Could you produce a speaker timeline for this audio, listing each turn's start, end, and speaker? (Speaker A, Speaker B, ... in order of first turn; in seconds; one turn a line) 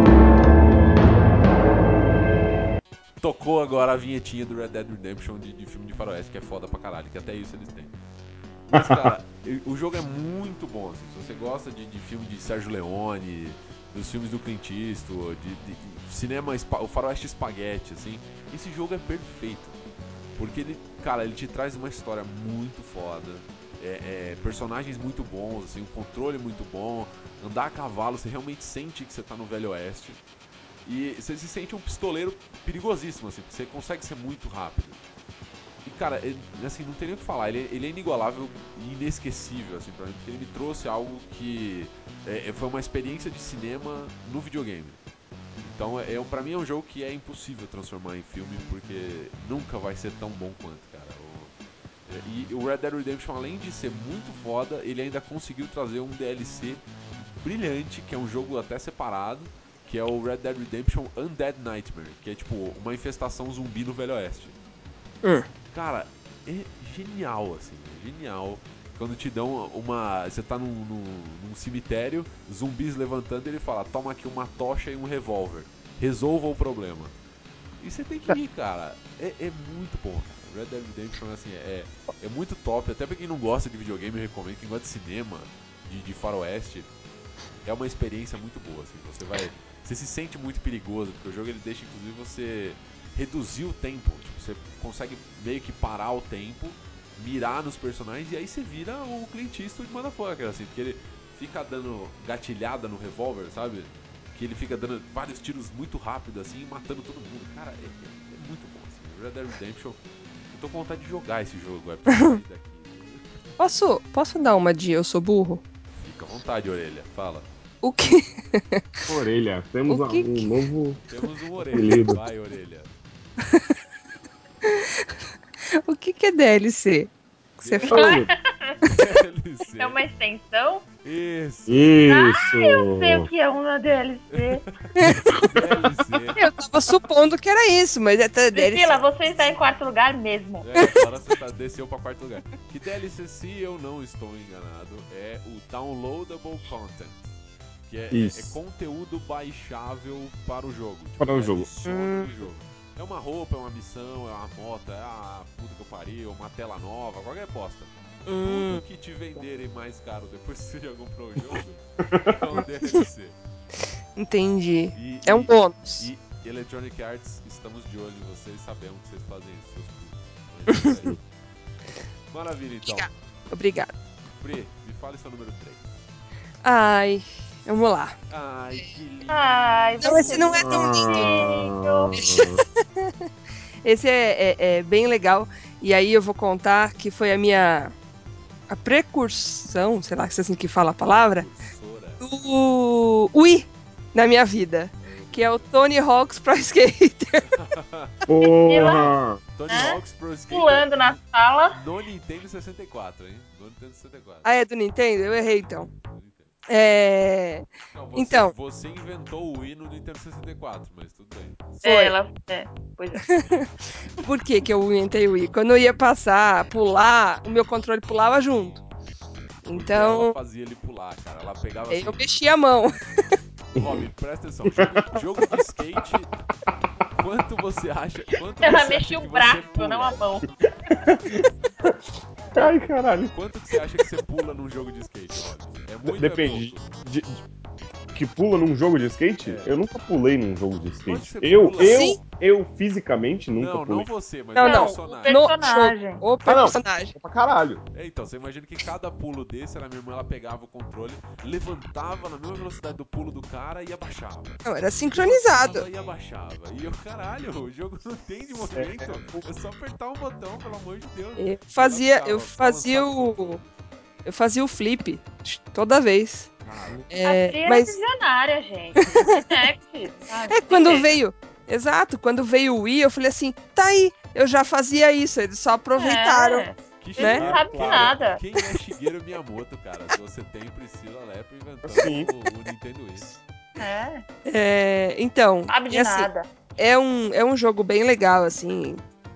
Speaker A: 3.2-7.9
Speaker A: 8.7-19.8
Speaker B: 8.7-9.1
Speaker A: 20.4-30.2
Speaker A: 30.9-35.0
Speaker A: 35.8-45.0
Speaker A: 45.6-51.5
Speaker A: 52.1-56.8
Speaker A: 57.4-64.6
Speaker A: 65.7-77.2
Speaker A: 77.8-86.9
Speaker A: 87.7-113.3
Speaker C: 112.1-112.4
Speaker C: 113.6-115.6
Speaker A: 115.9-117.5
Speaker C: 117.8-119.0
Speaker B: 119.1-121.0
Speaker C: 119.9-120.5
Speaker A: 121.1-122.9
Speaker B: 121.6-122.2
Speaker C: 125.8-127.1
Speaker A: 127.6-128.2
Speaker C: 127.6-128.2
Speaker D: 127.8-128.8
Speaker B: 127.9-128.3
Speaker A: 128.8-130.0
Speaker D: 129.8-130.8
Speaker A: 131.0-132.1
Speaker B: 131.7-133.3
Speaker D: 132.1-134.7
Speaker A: 134.3-136.4
Speaker C: 135.0-135.6
Speaker C: 136.3-138.9
Speaker D: 138.5-140.7
Speaker A: 140.6-147.3
Speaker A: 147.9-163.4
Speaker B: 148.1-148.5
Speaker B: 151.2-151.7
Speaker C: 151.8-152.3
Speaker C: 158.3-158.8
Speaker B: 162.0-162.4
Speaker C: 164.2-166.1
Speaker A: 164.9-171.2
Speaker A: 172.3-173.1
Speaker C: 172.9-173.9
Speaker A: 174.4-176.0
Speaker C: 176.6-178.1
Speaker A: 178.3-180.4
Speaker D: 179.3-182.1
Speaker C: 180.0-181.5
Speaker B: 180.6-182.6
Speaker C: 182.1-183.1
Speaker C: 183.8-187.9
Speaker C: 188.7-191.5
Speaker A: 191.1-192.3
Speaker C: 192.2-197.6
Speaker A: 195.0-195.9
Speaker A: 197.5-201.2
Speaker B: 198.3-199.4
Speaker D: 198.4-199.1
Speaker D: 199.7-200.0
Speaker D: 200.5-201.8
Speaker A: 201.7-204.5
Speaker C: 204.4-205.9
Speaker A: 205.9-206.5
Speaker C: 206.7-208.5
Speaker A: 207.9-211.8
Speaker D: 211.8-213.2
Speaker C: 211.8-212.1
Speaker C: 213.2-213.7
Speaker C: 214.2-218.8
Speaker C: 219.7-220.3
Speaker A: 219.7-222.3
Speaker C: 221.9-223.0
Speaker B: 223.8-224.0
Speaker A: 223.8-226.3
Speaker A: 227.1-231.4
Speaker D: 228.6-230.5
Speaker B: 231.1-231.4
Speaker A: 232.5-236.9
Speaker B: 232.6-233.3
Speaker B: 236.1-237.4
Speaker B: 238.1-244.1
Speaker A: 239.4-239.8
Speaker A: 241.1-242.2
Speaker C: 241.8-242.2
Speaker A: 243.6-245.6
Speaker C: 244.6-247.1
Speaker D: 244.6-246.2
Speaker B: 246.5-247.8
Speaker A: 247.9-263.9
Speaker C: 254.7-255.8
Speaker B: 258.7-259.4
Speaker C: 261.4-263.6
Speaker C: 264.3-266.5
Speaker A: 266.6-267.1
Speaker C: 267.1-267.9
Speaker D: 267.2-271.2
Speaker C: 269.1-269.4
Speaker C: 270.5-277.4
Speaker D: 275.9-278.4
Speaker A: 277.0-283.3
Speaker B: 277.4-278.2
Speaker B: 281.8-282.3
Speaker D: 283.8-284.2
Speaker C: 284.5-289.0
Speaker D: 285.7-286.5